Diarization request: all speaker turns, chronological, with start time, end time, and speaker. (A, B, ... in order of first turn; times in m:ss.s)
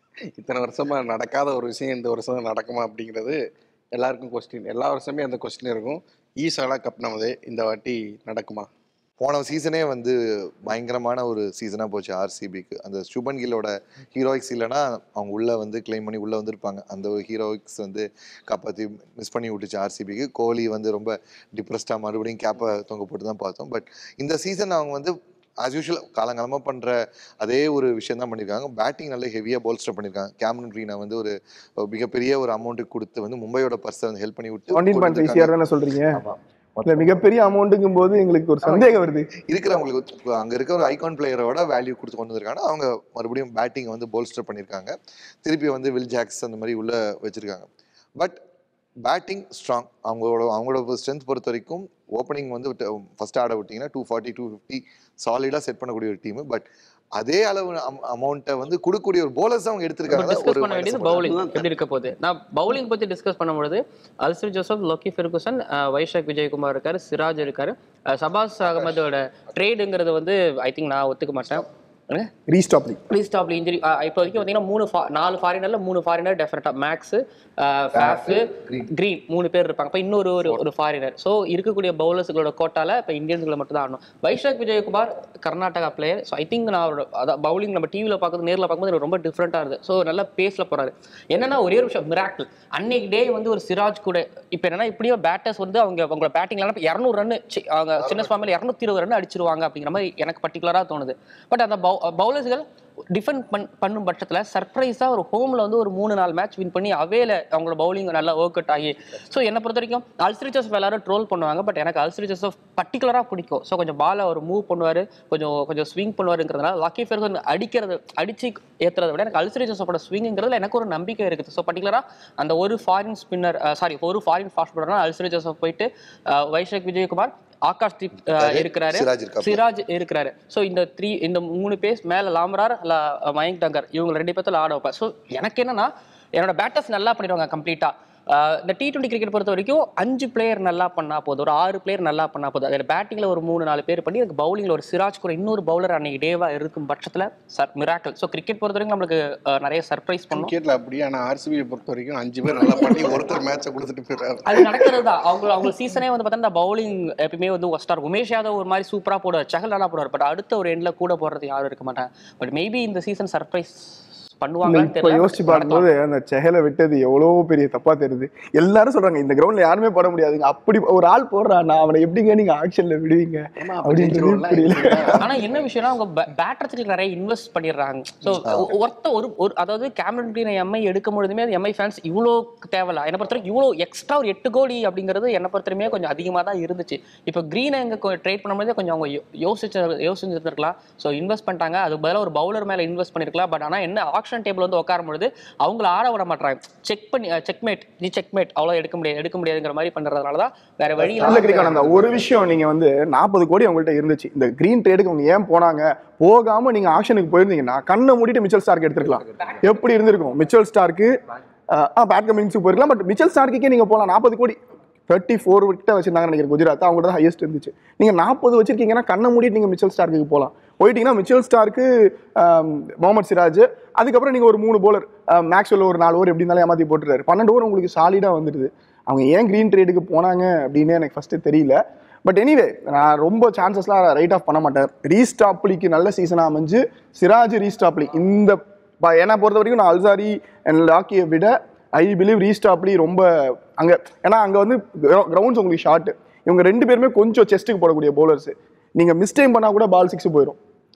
0:00.4-0:03.4 A
0:03.9-0:08.7 A
0:09.2-0:35.6 B
0:34.7-0:36.2 C
0:36.1-0:37.4 B
0:36.9-0:39.3 C
0:39.5-0:48.4 B
0:49.0-0:56.6 B
0:57.2-1:01.4 B
1:00.1-1:12.3 D
1:01.1-1:01.6 A
1:12.5-1:13.0 C
1:13.1-2:30.5 D
1:17.9-1:18.9 B
1:38.0-1:38.5 B
2:08.4-2:09.6 B
2:30.3-2:35.0 A
2:32.8-2:33.2 D
2:34.5-2:45.9 D
2:44.6-2:55.2 C
2:53.6-2:55.7 A
2:55.2-3:21.8 D
3:21.0-3:22.4 A
3:21.2-3:31.1 C
3:31.7-3:34.6 C
3:35.1-4:10.6 C